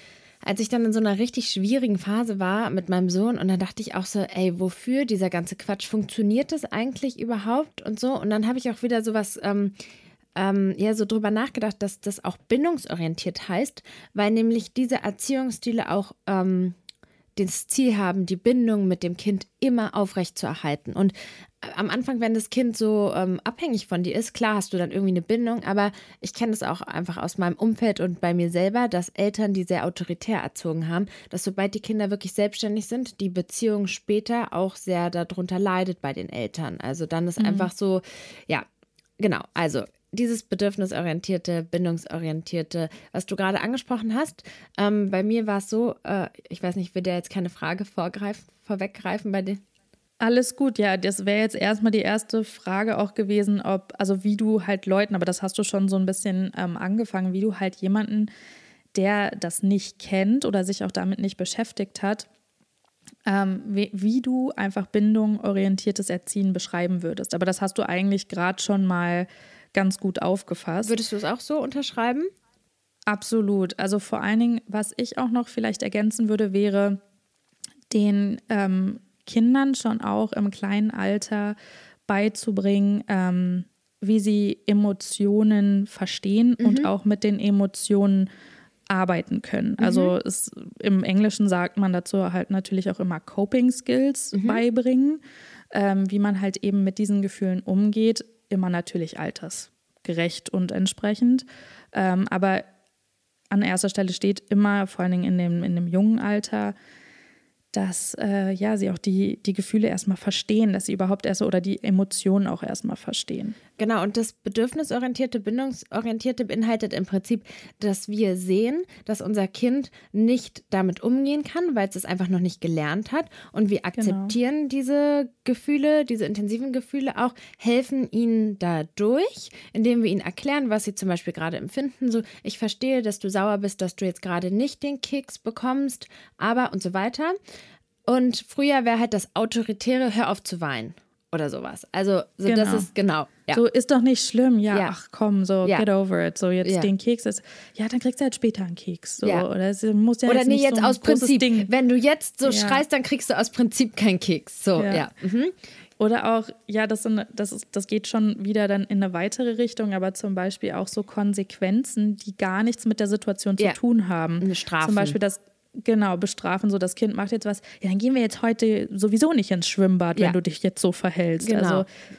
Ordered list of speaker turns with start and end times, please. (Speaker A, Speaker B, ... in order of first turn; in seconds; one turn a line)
Speaker A: 0.4-9.7
Speaker A: 10.3-16.8
Speaker A: 17.4-38.7
Speaker B: 37.4-37.7
Speaker A: 39.2-49.6
Speaker B: 50.2-58.3
Speaker B: 58.9-62.3
Speaker B: 63.3-71.0
Speaker A: 70.8-72.3
Speaker B: 73.1-77.0
Speaker B: 77.9-81.6
Speaker B: 82.1-88.3
Speaker A: 86.6-86.9
Speaker B: 88.9-95.2
Speaker A: 89.8-90.1
Speaker A: 94.3-94.6
Speaker B: 95.7-102.6
Speaker B: 103.5-106.8
Speaker B: 107.7-113.6
Speaker A: 113.8-137.4
Speaker B: 124.0-124.3
Speaker A: 138.1-143.6
Speaker B: 142.5-142.9
Speaker B: 143.5-151.7
Speaker A: 146.6-146.9
Speaker A: 150.3-155.5
Speaker B: 152.4-152.8
Speaker B: 154.8-155.1
Speaker B: 156.0-171.9
Speaker A: 164.4-165.2
Speaker A: 171.4-171.8